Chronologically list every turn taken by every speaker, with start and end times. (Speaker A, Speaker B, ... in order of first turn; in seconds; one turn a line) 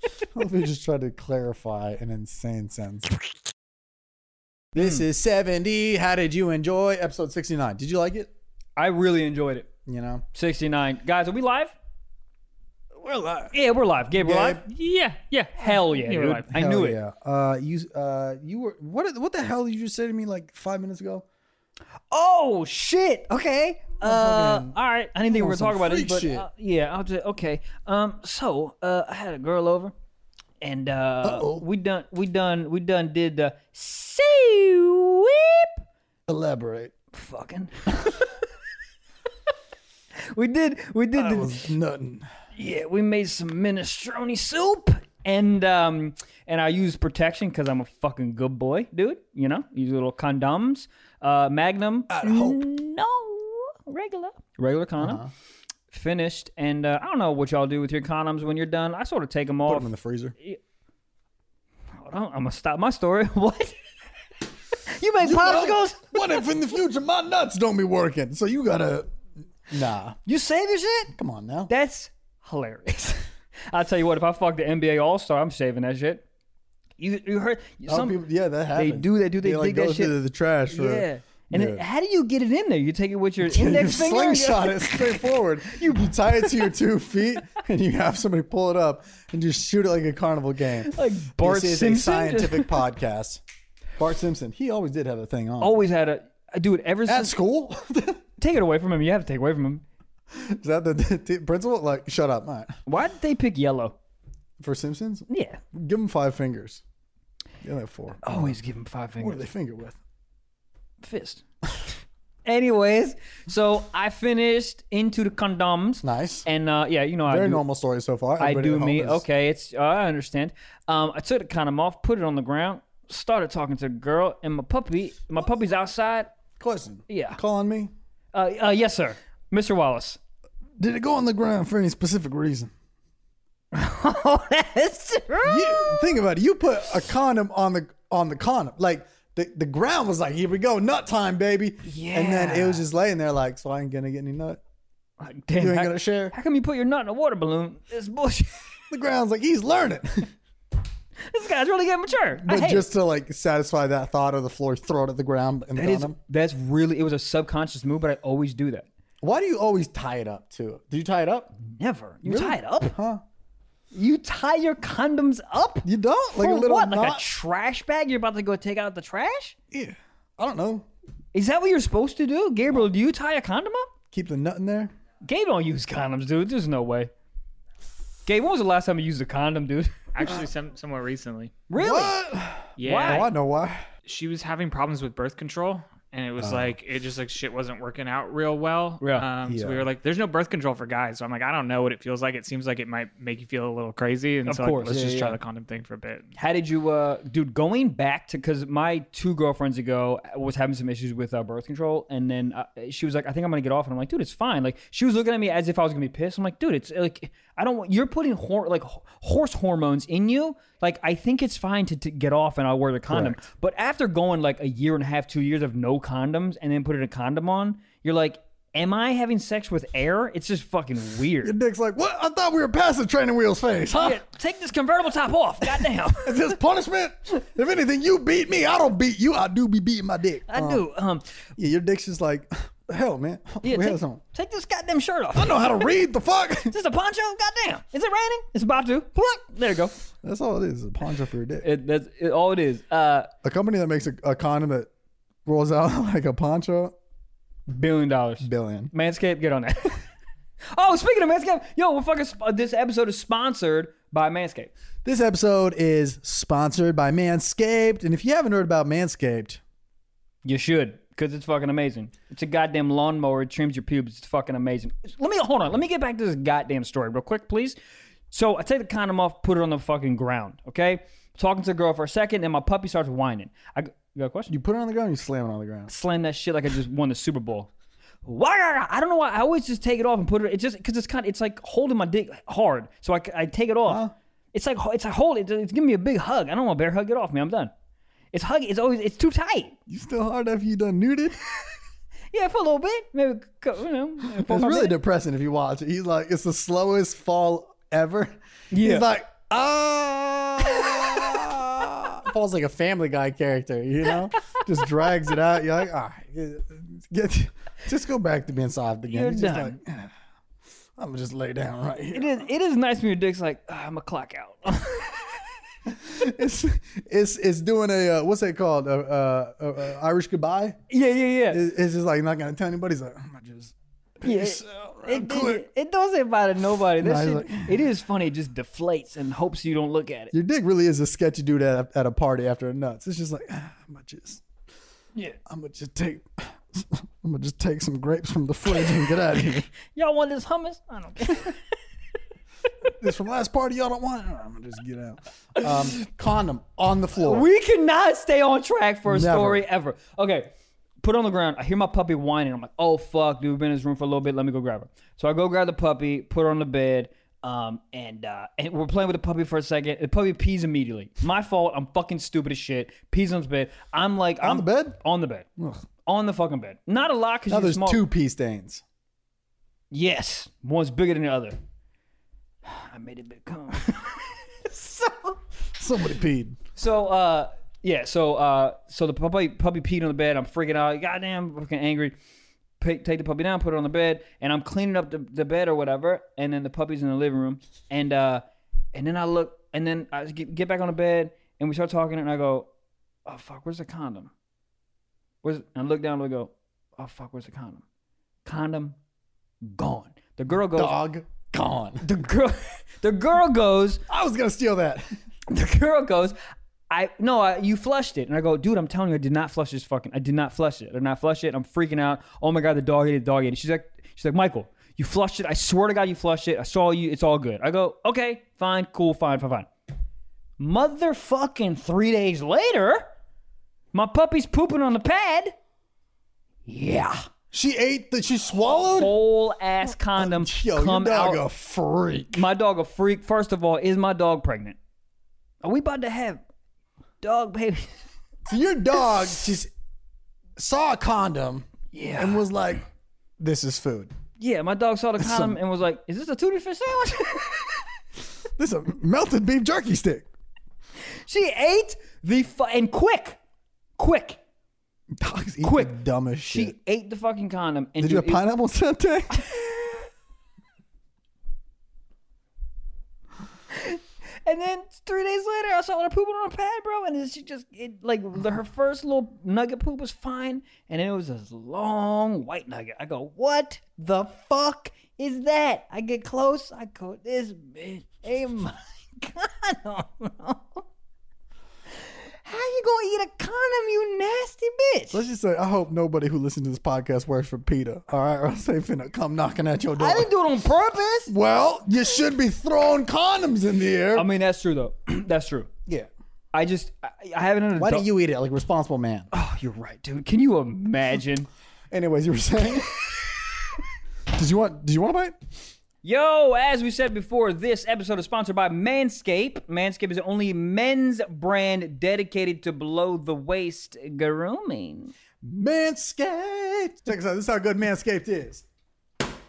Speaker A: 0.3-3.1
Speaker A: 4.7-8.3
Speaker B: 8.8-9.7
Speaker A: 9.9-10.2
Speaker B: 10.3-11.8
Speaker A: 13.0-13.5
Speaker B: 13.5-14.6
Speaker A: 14.2-14.6
Speaker C: 14.7-16.5
Speaker B: 15.6-17.0
Speaker A: 16.5-21.2
Speaker B: 22.1-29.9
Speaker A: 24.0-26.5
Speaker B: 30.6-35.8
Speaker A: 31.2-31.7
Speaker A: 36.3-36.9
Speaker B: 37.1-38.4
Speaker B: 40.2-41.7
Speaker A: 41.1-42.3
Speaker B: 42.6-55.2
Speaker A: 52.1-52.6
Speaker A: 55.0-55.3
Speaker B: 55.9-60.6
Speaker A: 59.7-60.4
Speaker B: 62.0-63.8
Speaker B: 64.8-66.4
Speaker A: 65.2-69.1
Speaker A: 69.7-70.2
Speaker B: 70.3-71.1
Speaker A: 71.1-71.7
Speaker B: 71.7-76.2
Speaker B: 77.0-78.2
Speaker A: 77.9-81.8
Speaker B: 78.7-80.2
Speaker B: 80.7-86.7
Speaker A: 83.4-93.4
Speaker B: 90.8-92.8
Speaker A: 94.0-95.8
Speaker B: 95.6-97.3
Speaker A: 97.1-98.2
Speaker B: 98.4-99.8
Speaker A: 100.3-102.8
Speaker B: 102.9-104.0
Speaker A: 104.6-106.8
Speaker B: 105.3-105.6
Speaker A: 107.6-108.6
Speaker B: 108.2-109.4
Speaker A: 109.2-110.0
Speaker B: 111.0-111.4
Speaker B: 112.5-117.6
Speaker A: 116.0-116.5
Speaker A: 117.3-119.2
Speaker B: 118.4-126.3
Speaker A: 126.6-127.9
Speaker B: 127.1-127.4
Speaker B: 128.3-130.2
Speaker A: 130.8-132.7
Speaker B: 133.7-136.2
Speaker A: 135.4-144.6
Speaker B: 141.8-142.8
Speaker B: 145.2-148.7
Speaker A: 145.6-146.3
Speaker A: 148.9-150.3
Speaker B: 151.3-152.9
Speaker A: 152.3-156.2
Speaker B: 155.8-158.9
Speaker A: 159.2-161.6
Speaker B: 161.6-162.9
Speaker A: 162.2-163.2
Speaker B: 163.9-169.6
Speaker A: 165.8-167.3
Speaker A: 169.7-170.9
Speaker B: 171.3-173.9
Speaker A: 174.1-174.9
Speaker B: 175.2-177.1
Speaker B: 178.3-180.1
Speaker C: 180.1-181.6
Speaker B: 181.7-182.2
Speaker A: 181.8-183.8
Speaker C: 182.8-183.3
Speaker B: 182.8-183.3
Speaker C: 184.1-196.3
Speaker A: 186.4-186.8
Speaker B: 189.0-189.3
Speaker A: 189.4-189.9
Speaker B: 194.5-195.4
Speaker B: 196.4-221.6
Speaker A: 213.1-213.4
Speaker A: 221.4-224.2
Speaker B: 224.0-226.6
Speaker A: 225.6-230.8
Speaker B: 230.5-231.3
Speaker A: 231.6-234.2
Speaker B: 233.6-235.8
Speaker A: 235.3-236.7
Speaker B: 236.7-240.0
Speaker A: 240.2-241.7
Speaker B: 241.6-243.3
Speaker A: 243.4-244.9
Speaker A: 245.5-246.9
Speaker B: 247.7-250.0
Speaker A: 248.4-248.9
Speaker B: 250.7-254.7
Speaker A: 255.1-259.6
Speaker B: 260.4-267.8
Speaker B: 268.3-274.5
Speaker A: 274.5-275.9
Speaker B: 275.9-277.7
Speaker B: 278.2-287.7
Speaker A: 283.9-284.1
Speaker B: 288.3-289.8
Speaker A: 289.9-291.4
Speaker B: 292.3-295.0
Speaker A: 294.2-310.1
Speaker B: 298.7-299.1
Speaker B: 300.8-301.2
Speaker B: 309.1-309.8
Speaker A: 311.0-312.4
Speaker B: 312.1-315.5
Speaker A: 315.9-320.8
Speaker B: 320.9-321.6
Speaker A: 321.5-325.6
Speaker B: 324.2-330.3
Speaker A: 327.0-327.9
Speaker A: 330.3-334.4
Speaker A: 335.5-339.7
Speaker B: 339.1-339.4
Speaker B: 339.9-341.6
Speaker A: 342.9-347.5
Speaker B: 347.2-365.5
Speaker A: 349.1-349.6
Speaker A: 364.4-365.0
Speaker A: 365.6-365.8
Speaker B: 366.0-368.0
Speaker A: 367.5-368.8
Speaker B: 369.9-371.6
Speaker B: 372.6-375.4
Speaker A: 375.8-376.6
Speaker B: 376.8-382.1
Speaker B: 382.8-392.7
Speaker B: 393.3-394.3
Speaker B: 395.4-397.8
Speaker B: 398.4-399.0
Speaker B: 399.6-401.0
Speaker A: 400.7-402.1
Speaker B: 402.0-404.0
Speaker A: 404.1-405.1
Speaker B: 405.5-406.4
Speaker B: 406.9-419.7
Speaker B: 420.6-423.1
Speaker B: 423.9-425.6
Speaker B: 426.7-427.2
Speaker A: 427.5-429.1
Speaker B: 428.9-431.4
Speaker A: 430.2-432.4
Speaker B: 432.3-434.8
Speaker B: 435.6-436.4
Speaker B: 437.2-438.0
Speaker A: 438.5-439.7
Speaker A: 440.6-442.8
Speaker B: 441.9-442.5
Speaker A: 443.4-444.1
Speaker B: 444.4-447.9
Speaker A: 445.2-445.6
Speaker A: 448.6-450.3
Speaker B: 451.1-453.4
Speaker B: 454.0-454.4
Speaker A: 455.1-456.8
Speaker B: 455.6-455.9
Speaker B: 456.5-458.4
Speaker A: 458.0-459.5
Speaker B: 463.7-480.8
Speaker B: 482.0-485.2
Speaker A: 485.1-490.3
Speaker B: 490.0-491.3
Speaker A: 491.3-494.3
Speaker B: 494.1-495.7
Speaker B: 496.5-498.1
Speaker A: 497.8-499.3
Speaker B: 499.3-501.5
Speaker A: 501.9-502.9
Speaker A: 504.3-505.4
Speaker B: 506.0-515.1
Speaker A: 515.4-518.6